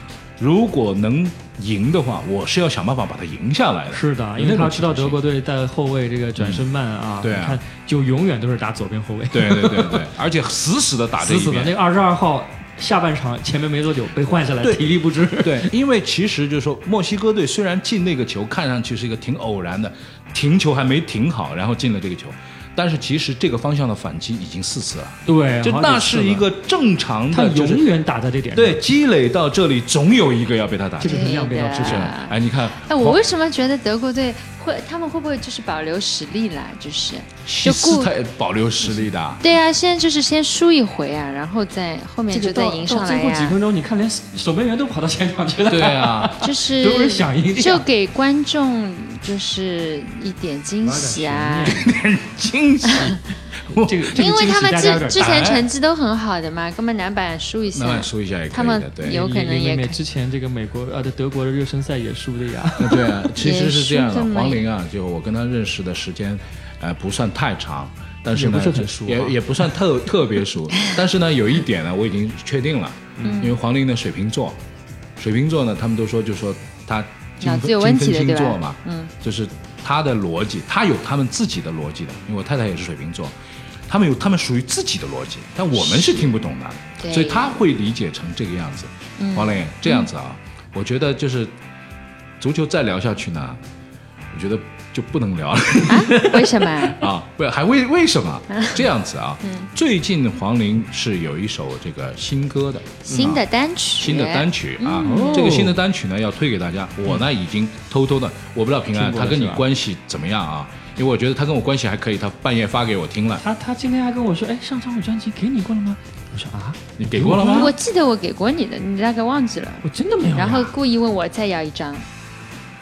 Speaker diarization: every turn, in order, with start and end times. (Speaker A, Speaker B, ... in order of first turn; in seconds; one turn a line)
Speaker A: 0.4-5.2
Speaker B: 3.9-10.1
Speaker A: 6.4-6.7
Speaker A: 7.2-7.6
Speaker A: 9.3-11.8
Speaker B: 11.2-15.7
Speaker A: 14.6-27.8
Speaker B: 25.2-26.4
Speaker B: 27.3-28.9
Speaker A: 28.5-33.2
Speaker B: 31.0-32.1
Speaker C: 31.0-38.1
Speaker A: 37.5-39.4
Speaker C: 39.4-43.6
Speaker B: 42.3-47.8
Speaker A: 45.7-46.4
Speaker C: 46.4-51.8
Speaker B: 50.8-51.9
Speaker A: 51.7-54.1
Speaker C: 52.8-53.2
Speaker B: 53.7-55.5
Speaker C: 54.1-60.0
Speaker A: 55.1-55.7
Speaker A: 57.7-59.2
Speaker B: 59.0-63.1
Speaker A: 62.8-74.6
Speaker C: 63.4-64.7
Speaker B: 68.3-69.4
Speaker B: 73.2-73.5
Speaker C: 73.2-73.6
Speaker A: 75.2-83.3
Speaker C: 77.4-79.1
Speaker A: 83.9-91.5
Speaker C: 85.7-86.4
Speaker C: 87.0-87.6
Speaker C: 89.2-90.1
Speaker A: 92.4-93.6
Speaker A: 94.3-103.4
Speaker C: 95.8-97.0
Speaker C: 98.5-98.9
Speaker C: 99.4-99.7
Speaker C: 103.1-105.6
Speaker A: 104.0-113.4
Speaker B: 105.0-105.8
Speaker B: 108.9-109.7
Speaker B: 113.4-117.7
Speaker A: 117.0-117.7
Speaker C: 117.4-122.0
Speaker B: 119.8-120.7